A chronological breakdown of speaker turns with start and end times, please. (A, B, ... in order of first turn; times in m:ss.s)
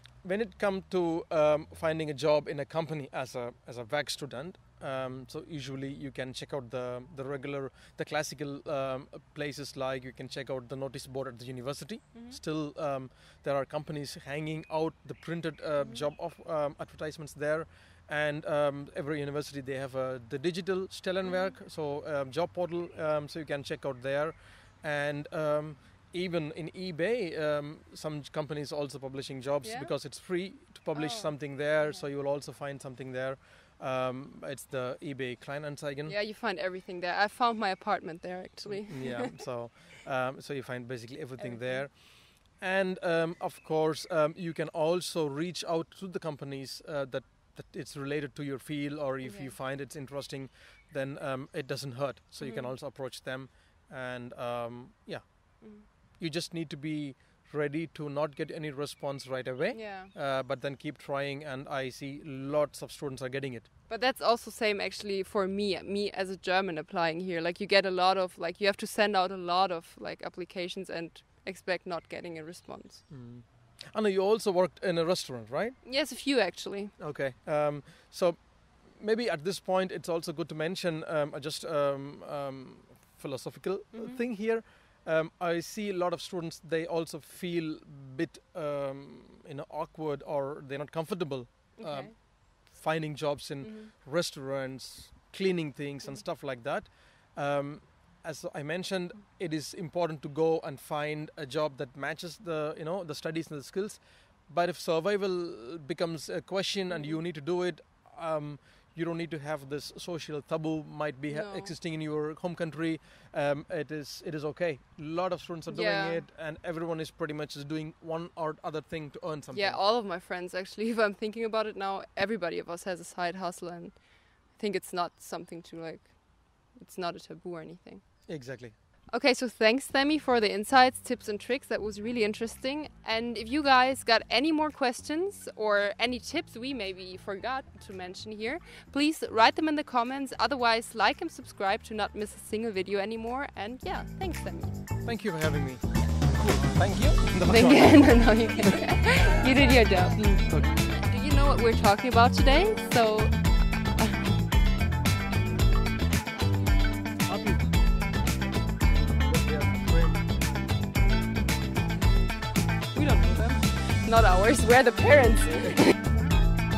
0:00.2-0:36.2 A
0:12.1-0:12.4 B
0:15.8-0:16.1 B
0:21.2-0:21.6 B
0:29.6-0:29.9 B
0:30.9-0:32.1 B
0:36.1-0:39.3 B
0:38.6-1:03.7 A
0:41.4-0:41.9 B
0:49.2-0:49.6 B
0:52.4-0:52.7 B
0:55.6-0:55.9 B
0:59.7-1:00.1 B
1:03.9-1:13.1 B
1:13.1-1:15.8 A
1:15.8-1:17.0 B
1:17.0-1:59.8 A
1:23.9-1:24.2 B
1:31.8-1:32.2 B
1:33.6-1:33.9 B
1:46.9-1:47.2 B
1:51.3-1:51.8 B
1:55.7-1:56.2 B
1:59.5-2:08.5 B
2:08.3-2:08.7 A
2:09.1-2:24.8 B
2:25.0-2:28.5 A
2:27.4-2:34.5 B
2:30.2-2:30.7 A
2:37.2-2:37.8 A
2:39.0-2:40.3 A
2:42.9-2:45.9 B